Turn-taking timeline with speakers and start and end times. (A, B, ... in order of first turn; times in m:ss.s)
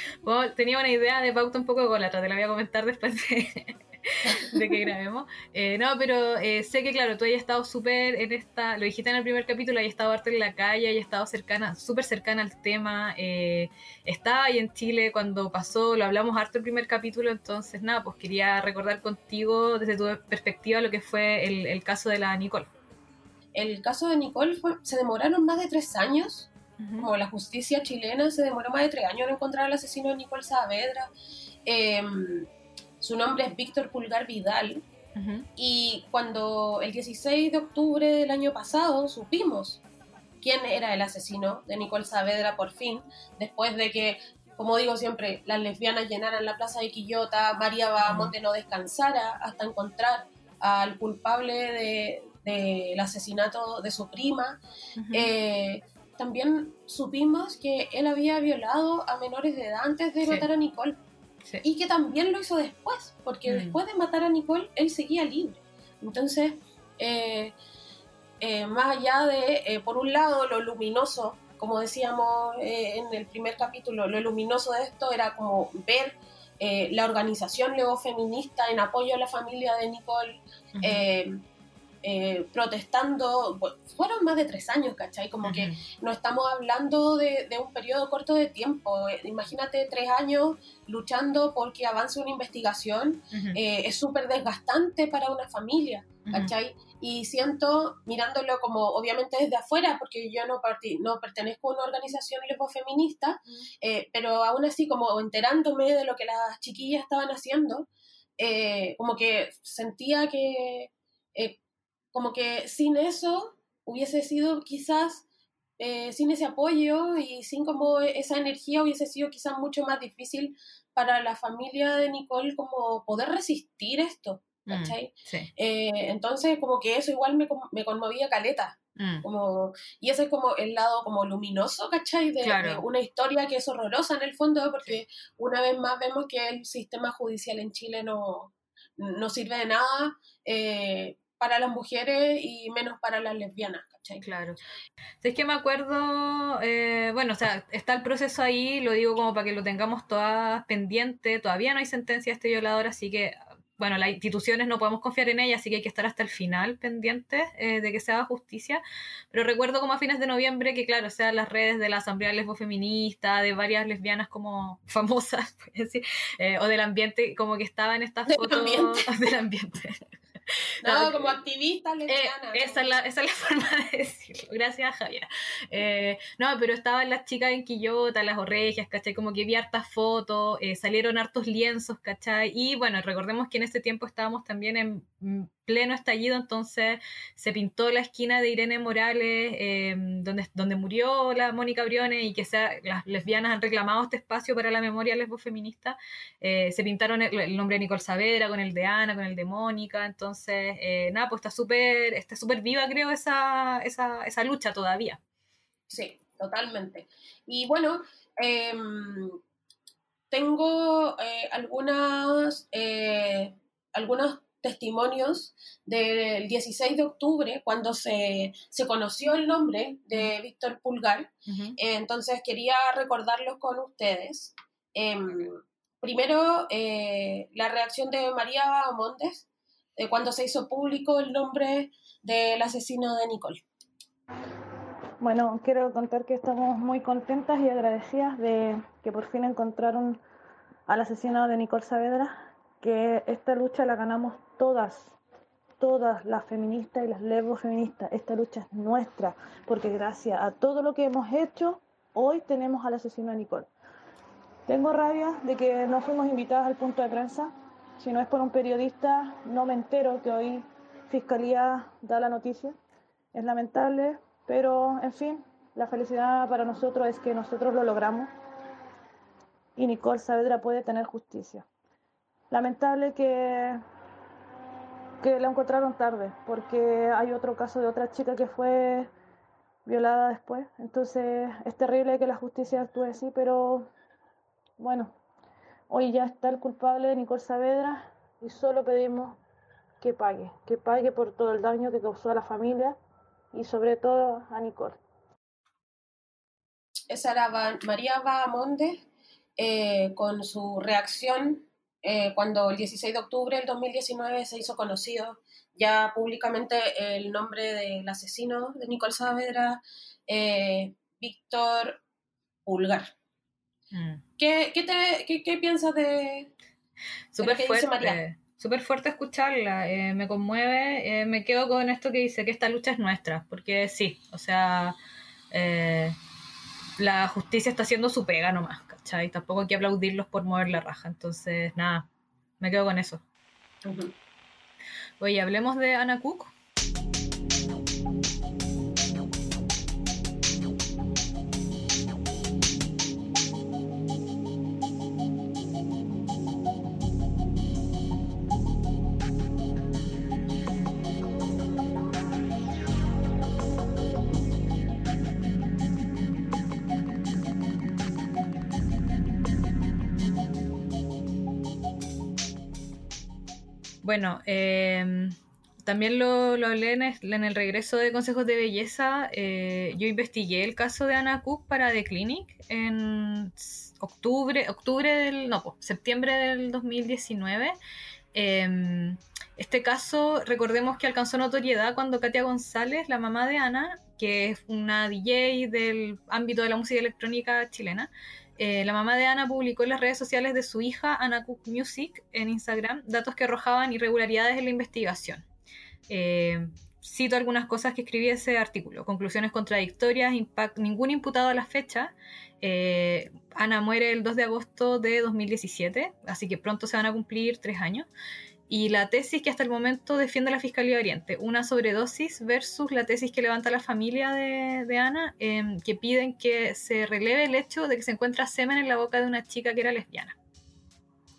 0:00.2-0:22.7 A
0:23.5-0:31.1 B
0:26.8-0:27.1 A
0:31.6-0:34.8 B
0:35.2-0:35.5 A
0:35.6-0:39.8 B
0:40.4-0:54.6 B
0:48.0-0:48.3 A
0:55.0-0:55.3 A
0:55.1-1:01.0 B
1:01.6-1:07.6 B
1:03.5-1:03.8 A
1:08.4-1:21.4 B
1:20.8-1:21.0 A
1:22.0-1:47.9 B
1:25.4-1:25.8 A
1:33.3-1:33.6 A
1:36.3-1:36.5 A
1:48.4-1:51.6 B
1:52.1-1:55.2 B
1:55.8-2:24.2 B
2:04.7-2:05.5 A
2:09.0-2:09.2 A
2:12.4-2:12.8 A
2:24.2-2:24.6 A
2:25.2-2:51.3 A
2:48.3-2:49.0 B
2:50.8-2:53.0 B
2:52.1-3:25.2 A
3:25.9-3:29.4 B
3:30.3-3:53.6 B
3:41.5-3:41.8 A
3:55.2-4:00.2 C
4:00.9-4:05.2 C
4:05.8-4:13.7 C
4:14.7-4:22.8 C
4:23.3-4:28.3 C
4:29.8-4:31.7 C
4:32.5-4:33.8 C
4:35.2-4:39.1 C
4:39.8-4:43.9 C
4:44.8-4:45.2 C
4:45.9-4:49.4 C
4:50.0-4:53.0 C
4:53.5-4:55.0 C
4:57.1-4:59.0 B
4:59.6-5:12.0 B
5:12.6-5:13.1 B
5:13.9-5:14.2 A
5:14.4-5:16.5 B
5:17.3-5:25.0 A
5:17.4-5:18.2 B
5:25.5-5:26.2 A
5:27.0-5:32.1 A
5:32.6-5:33.2 A
5:33.8-5:34.1 B
5:35.2-5:36.5 A
6:04.0-6:17.8 A
6:18.3-6:35.4 A
6:36.1-6:48.1 A
6:48.7-7:00.4 A